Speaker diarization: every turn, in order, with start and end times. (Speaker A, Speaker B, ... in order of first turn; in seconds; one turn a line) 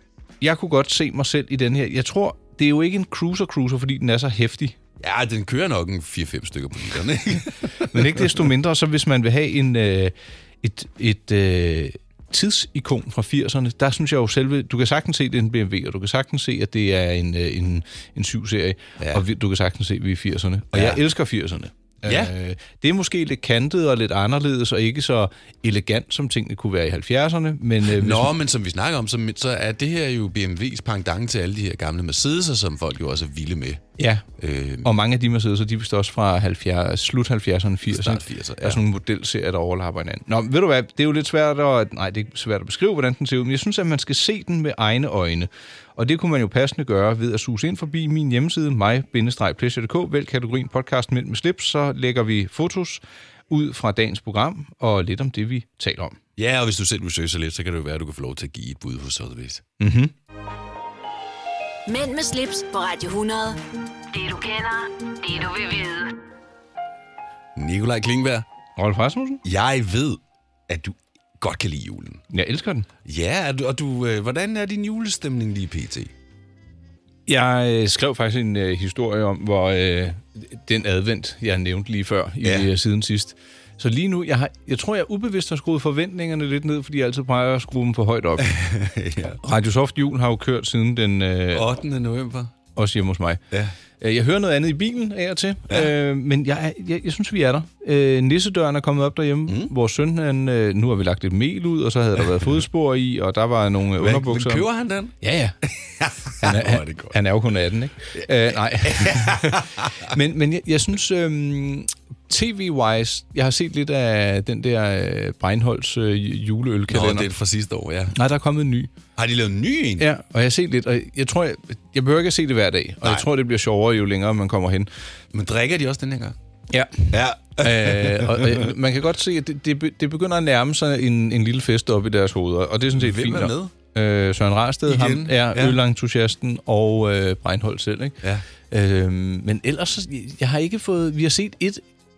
Speaker A: 0.4-4.8
Speaker B: 5.0-8.3
Speaker A: 7.8-28.3
Speaker B: 19.0-19.2
Speaker B: 20.7-21.0
Speaker B: 22.0-22.3
Speaker B: 27.8-33.8
Speaker A: 34.0-34.2
Speaker B: 34.4-34.9
Speaker A: 34.8-56.2
Speaker B: 37.9-38.8
Speaker B: 56.4-59.6
Speaker A: 59.8-60.1
Speaker C: 61.9-63.6
Speaker C: 64.1-66.2
Speaker B: 67.5-68.5
Speaker A: 68.8-69.4
Speaker B: 69.4-72.2
Speaker A: 72.3-72.9
Speaker B: 73.0-76.1
Speaker A: 77.3-88.5
Speaker B: 88.4-89.4
Speaker A: 89.4-91.7
Speaker B: 91.5-92.5
Speaker A: 92.7-93.4
Speaker A: 94.0-104.7
Speaker B: 99.5-99.7
Speaker B: 104.0-105.2
Speaker A: 105.2-105.5
Speaker B: 105.7-107.2
Speaker A: 106.4-117.3
Speaker B: 108.8-110.1
Speaker B: 116.9-118.1
Speaker A: 118.1-118.9
Speaker B: 119.2-120.1
Speaker A: 120.0-124.9
Speaker B: 125.3-126.3
Speaker A: 126.7-141.8
Speaker B: 127.1-128.7
Speaker B: 132.9-133.7
Speaker B: 134.8-135.8